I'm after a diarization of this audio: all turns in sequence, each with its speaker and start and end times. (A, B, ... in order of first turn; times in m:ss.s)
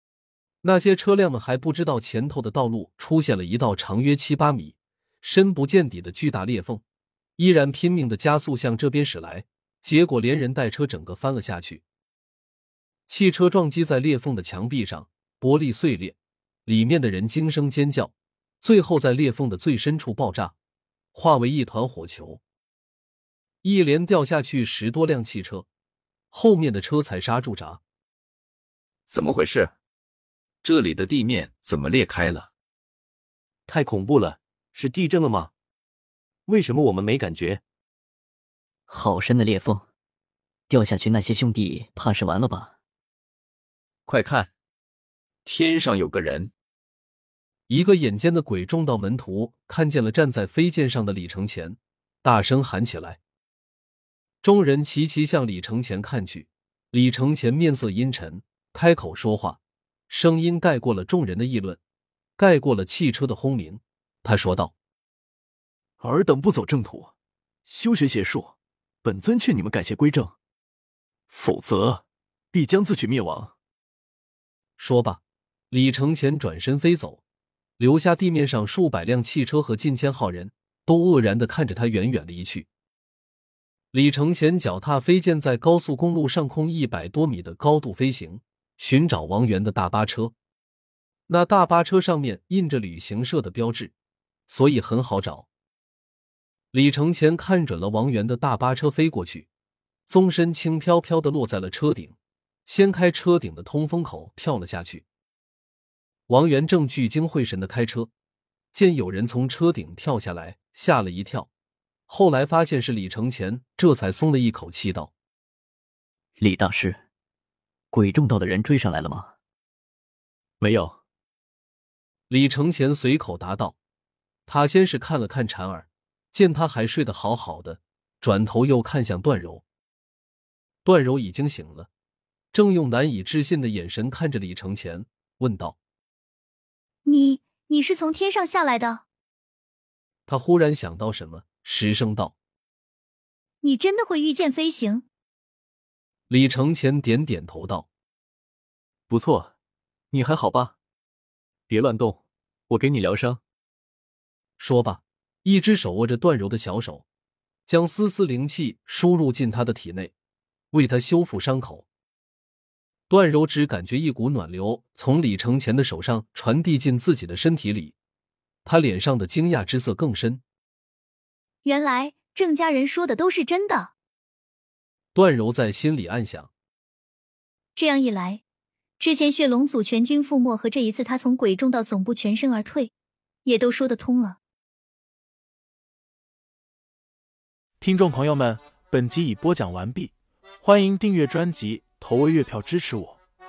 0:00.6-0:06.8 A
0:07.4-0:11.8 A
0:13.1-0:20.6 A
0:21.1-0:22.4 A
0:23.6-0:25.7 A
0:26.3-0:27.8 A
0:29.1-0:29.7 B
0:30.6-0:32.5 B
0:33.7-0:35.5 C
0:36.5-0:37.6 C
0:38.9-0:39.9 D
0:40.7-0:42.7 D
0:44.1-0:44.5 B
0:45.4-0:46.5 B
0:47.7-0:53.2 A
0:54.4-1:01.8 A
1:02.4-1:04.7 A
1:06.0-1:07.1 E
1:07.7-1:08.5 E
1:09.0-1:10.3 E
1:11.3-1:12.0 E
1:12.5-1:13.5 E
1:14.8-1:17.2 A
1:17.8-1:22.7 A
1:23.9-1:30.3 A
1:31.3-1:33.9 A
1:34.5-1:35.5 A
1:36.7-1:39.5 A
1:40.1-1:45.0 A
1:46.3-1:48.1 A
1:48.7-1:51.5 A
1:52.1-1:55.1 A
1:56.4-1:57.0 D
1:57.9-1:59.3 D
2:00.6-2:01.0 E
2:02.3-2:03.8 A
2:04.5-2:09.6 A
2:10.8-2:11.9 A
2:12.5-2:15.8 A
2:17.0-2:19.0 F
2:20.3-2:22.4 A
2:23.6-2:25.0 F
2:26.3-2:27.9 A
2:29.1-2:29.5 E
2:30.1-2:30.7 E
2:31.7-2:32.2 E
2:32.7-2:33.4 E
2:34.6-2:37.0 A
2:37.7-2:40.1 A
2:40.7-2:41.9 A
2:43.1-2:48.0 A
2:48.6-2:50.4 A
2:51.6-2:53.9 F
2:55.1-2:56.5 A
2:57.8-2:58.4 F
2:59.0-3:02.9 F
3:03.5-3:04.4 F
3:07.8-3:13.2 G